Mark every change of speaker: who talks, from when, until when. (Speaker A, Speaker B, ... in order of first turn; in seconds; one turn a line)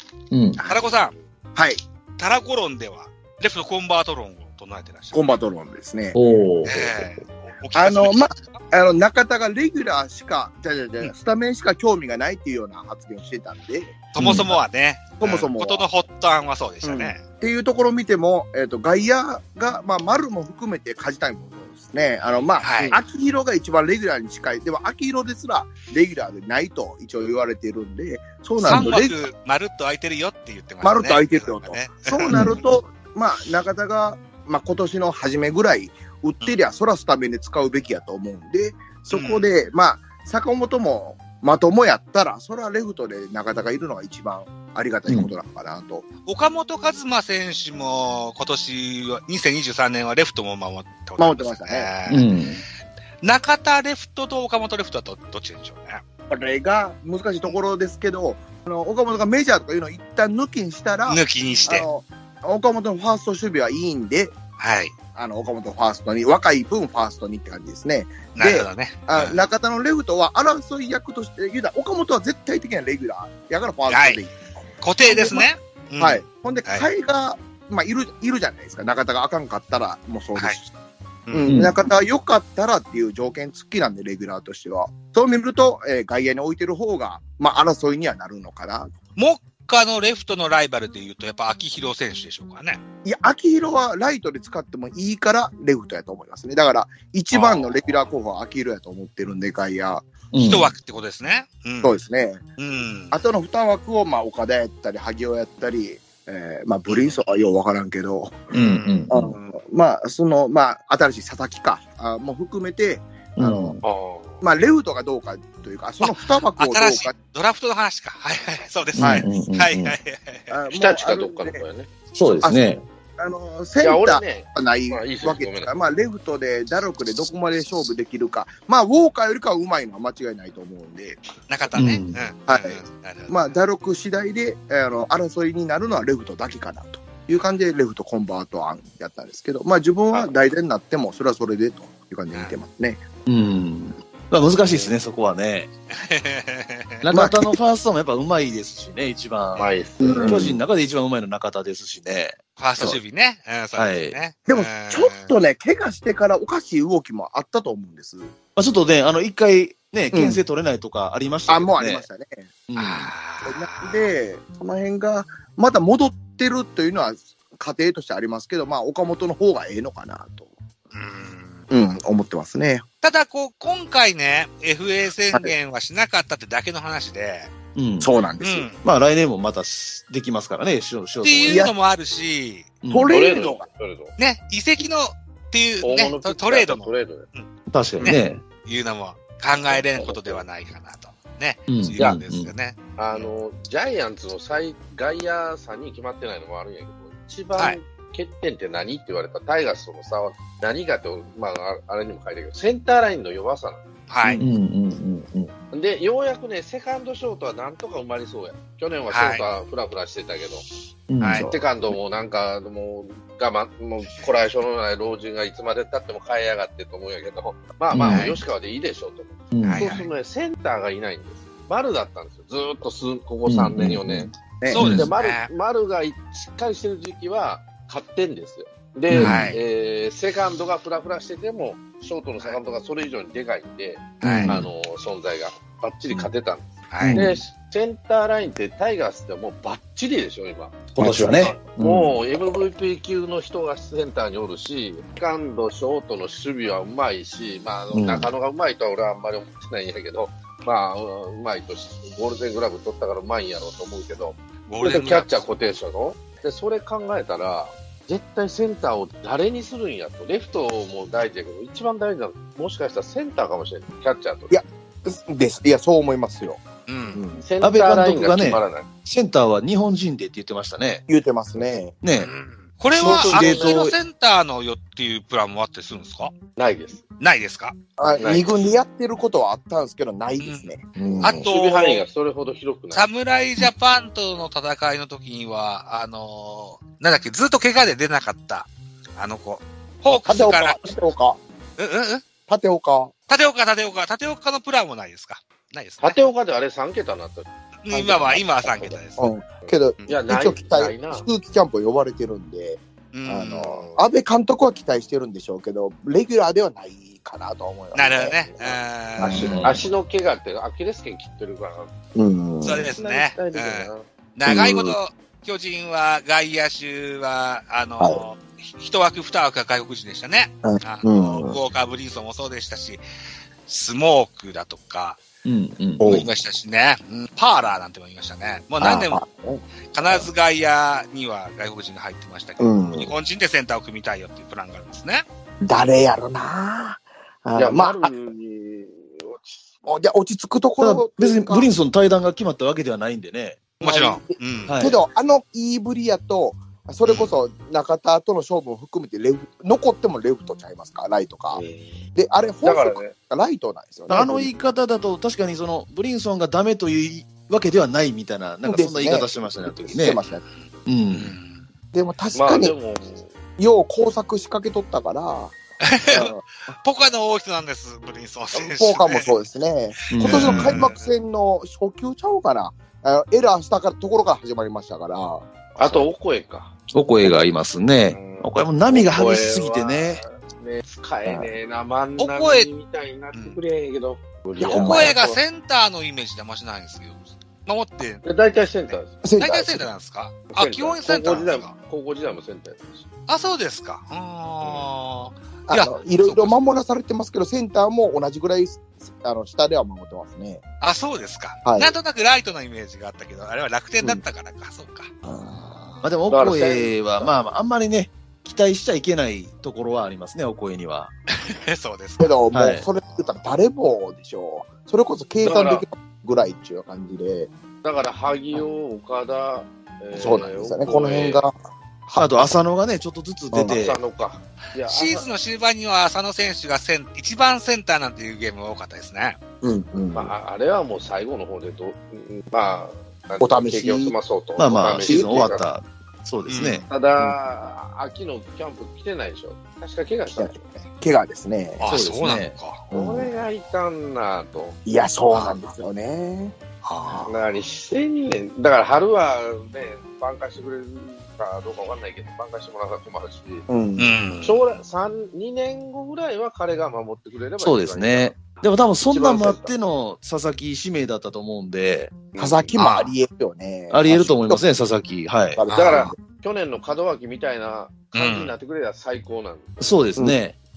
Speaker A: 0.3-0.6
Speaker B: 0.6-1.1
Speaker C: 1.6-1.8
Speaker B: 2.2-5.4
Speaker C: 5.1-6.2
Speaker A: 6.2-7.2
Speaker B: 6.6-8.6
Speaker C: 7.8-14.0
Speaker B: 14.1-17.2
Speaker A: 14.2-14.5
Speaker C: 15.2-15.8
Speaker C: 16.8-29.3
Speaker B: 22.6-23.0
Speaker B: 28.6-32.6
Speaker A: 28.7-28.9
Speaker C: 30.8-46.1
Speaker A: 32.3-32.6
Speaker B: 39.1-39.5
Speaker B: 46.3-52.4
Speaker C: 51.2-51.9
Speaker A: 52.1-52.6
Speaker B: 53.2-56.0
Speaker C: 56.3-64.3
Speaker B: 61.1-61.8
Speaker B: 64.6-65.0
Speaker C: 65.2-75.5
Speaker B: 68.3-69.4
Speaker B: 73.9-74.2
Speaker B: 74.8-76.9
Speaker C: 76.0-80.7
Speaker B: 81.3-81.6
Speaker C: 81.3-88.9
Speaker A: 81.5-81.8
Speaker B: 89.2-92.8
Speaker C: 93.0-100.1
Speaker B: 97.3-98.0
Speaker A: 100.3-100.8
Speaker B: 100.4-102.0
Speaker C: 101.8-102.4
Speaker B: 102.6-103.2
Speaker C: 103.1-108.5
Speaker B: 106.9-107.4
Speaker B: 108.5-109.1
Speaker A: 108.5-109.2
Speaker C: 109.1-113.8
Speaker A: 113.4-113.8
Speaker D: 113.8-114.4
Speaker C: 114.4-117.1
Speaker B: 116.0-120.5
Speaker A: 119.0-120.0
Speaker C: 119.0-119.3
Speaker C: 120.5-121.6
Speaker D: 120.7-121.9
Speaker A: 122.1-122.8
Speaker C: 122.4-131.2
Speaker D: 123.8-125.7
Speaker B: 131.5-133.6
Speaker A: 131.7-132.2
Speaker C: 132.5-143.1
Speaker D: 140.1-140.5
Speaker A: 143.3-145.7
Speaker B: 145.9-147.0
Speaker A: 147.0-152.4
Speaker C: 147.1-147.6
Speaker B: 149.6-149.8
Speaker D: 149.6-150.4
Speaker C: 150.0-150.6
Speaker B: 152.6-155.3
Speaker A: 153.8-154.2
Speaker C: 154.5-158.3
Speaker A: 158.6-162.1
Speaker C: 160.1-160.4
Speaker C: 161.5-162.5
Speaker A: 162.7-163.1
Speaker B: 162.8-164.1
Speaker C: 163.4-170.5
Speaker B: 170.9-171.7
Speaker C: 171.7-172.8
Speaker B: 173.0-177.5
Speaker A: 177.8-178.1
Speaker C: 178.0-178.7
Speaker B: 178.4-178.8
Speaker A: 178.8-181.7
Speaker B: 181.2-182.7
Speaker C: 181.4-181.7
Speaker A: 182.8-183.1
Speaker C: 182.9-183.7
Speaker D: 183.1-184.2
Speaker B: 184.2-193.3
Speaker D: 185.8-187.3
Speaker A: 187.7-188.4
Speaker D: 189.7-190.4
Speaker A: 191.7-192.5
Speaker D: 193.0-203.8
Speaker B: 204.1-204.4
Speaker A: 204.2-205.6
Speaker D: 205.7-210.6
Speaker B: 209.1-209.4
Speaker A: 211.1-211.5
Speaker B: 211.2-211.5
Speaker D: 211.4-224.3
Speaker A: 217.9-218.3
Speaker B: 218.1-218.4
Speaker A: 219.5-219.9
Speaker B: 219.6-220.1
Speaker A: 223.5-225.1
Speaker C: 224.6-225.0
Speaker B: 224.7-225.5
Speaker D: 224.9-264.6
Speaker A: 229.1-229.6
Speaker B: 229.2-229.6
Speaker B: 234.2-234.6
Speaker A: 234.2-234.7
Speaker B: 236.9-237.2
Speaker A: 237.0-237.4
Speaker A: 240.9-242.2
Speaker C: 241.0-241.4
Speaker A: 247.9-248.3
Speaker B: 254.7-255.4
Speaker C: 264.5-267.4
Speaker B: 266.9-267.2
Speaker D: 267.4-268.9
Speaker A: 267.6-271.0
Speaker C: 271.1-271.9
Speaker A: 272.0-272.3
Speaker B: 272.2-276.3
Speaker A: 272.9-274.0
Speaker D: 273.0-273.8
Speaker D: 276.6-277.0
Speaker B: 277.2-277.8
Speaker C: 278.0-281.5
Speaker D: 278.2-278.6
Speaker B: 280.4-282.0
Speaker A: 281.0-281.3
Speaker D: 281.4-283.1
Speaker B: 282.9-290.8
Speaker C: 290.1-291.4
Speaker B: 291.8-292.2
Speaker C: 292.5-293.1
Speaker B: 293.3-296.3
Speaker D: 296.0-297.5
Speaker B: 297.9-299.3
Speaker C: 297.9-309.8
Speaker D: 299.6-301.2
Speaker B: 303.1-303.9
Speaker B: 307.9-309.8
Speaker A: 309.2-309.8
Speaker D: 309.2-311.9
Speaker C: 312.1-312.9
Speaker B: 312.6-323.0
Speaker D: 313.0-314.1
Speaker C: 314.5-315.0
Speaker C: 320.6-321.6
Speaker B: 323.7-325.2
Speaker A: 325.4-326.3
Speaker C: 326.0-326.3
Speaker B: 326.0-329.2
Speaker C: 328.8-330.3
Speaker B: 329.9-335.2
Speaker C: 332.6-333.1
Speaker C: 335.6-338.1
Speaker D: 337.6-339.7
Speaker C: 339.9-341.7
Speaker A: 340.8-343.6
Speaker B: 343.8-344.8
Speaker C: 343.8-351.6
Speaker A: 344.7-345.0
Speaker B: 347.0-347.3
Speaker D: 351.5-352.1
Speaker C: 352.1-354.5
Speaker D: 352.6-353.1
Speaker A: 354.1-360.2
Speaker C: 358.7-360.4
Speaker B: 360.3-361.7
Speaker A: 360.9-361.3
Speaker C: 361.9-362.7
Speaker D: 362.3-363.3
Speaker C: 363.6-365.6
Speaker B: 365.8-369.4
Speaker C: 366.1-366.8
Speaker C: 368.6-376.1
Speaker A: 370.1-370.9
Speaker B: 370.2-370.9
Speaker D: 375.8-376.7
Speaker A: 376.9-380.2
Speaker D: 378.1-385.4
Speaker C: 381.3-381.5
Speaker B: 382.2-382.7
Speaker B: 383.3-383.6
Speaker C: 384.6-385.2
Speaker B: 384.7-391.7
Speaker D: 388.2-389.1
Speaker C: 389.2-389.9
Speaker D: 390.5-393.1
Speaker B: 393.3-396.6
Speaker D: 394.6-394.9
Speaker C: 395.7-400.6
Speaker B: 400.8-405.1
Speaker C: 401.6-401.9
Speaker C: 405.2-406.0
Speaker A: 406.0-411.1
Speaker D: 406.3-407.3
Speaker B: 411.3-412.3
Speaker C: 412.2-417.5
Speaker A: 412.5-412.8
Speaker D: 415.4-415.9
Speaker D: 417.8-421.4
Speaker C: 420.1-421.5
Speaker A: 422.1-424.0
Speaker C: 423.5-423.8
Speaker D: 423.8-425.3
Speaker B: 424.9-429.4
Speaker C: 429.6-430.3
Speaker D: 430.1-435.7
Speaker C: 433.4-434.2
Speaker A: 434.6-436.9
Speaker C: 435.0-435.6
Speaker B: 436.5-436.9
Speaker D: 436.9-440.7
Speaker C: 440.3-441.8
Speaker B: 441.8-442.8
Speaker A: 441.9-442.5
Speaker C: 442.9-443.3
Speaker D: 442.9-444.8
Speaker C: 444.9-447.3
Speaker B: 445.3-445.6
Speaker B: 446.8-447.3
Speaker D: 447.3-453.7
Speaker C: 453.7-454.1
Speaker B: 454.0-454.7
Speaker D: 454.4-459.8
Speaker A: 457.6-462.1
Speaker D: 462.3-462.7
Speaker C: 462.4-464.6
Speaker B: 462.8-463.1
Speaker A: 463.9-465.6
Speaker C: 465.6-466.2
Speaker D: 465.7-469.7
Speaker B: 465.8-466.1
Speaker B: 468.1-468.5
Speaker A: 469.8-470.6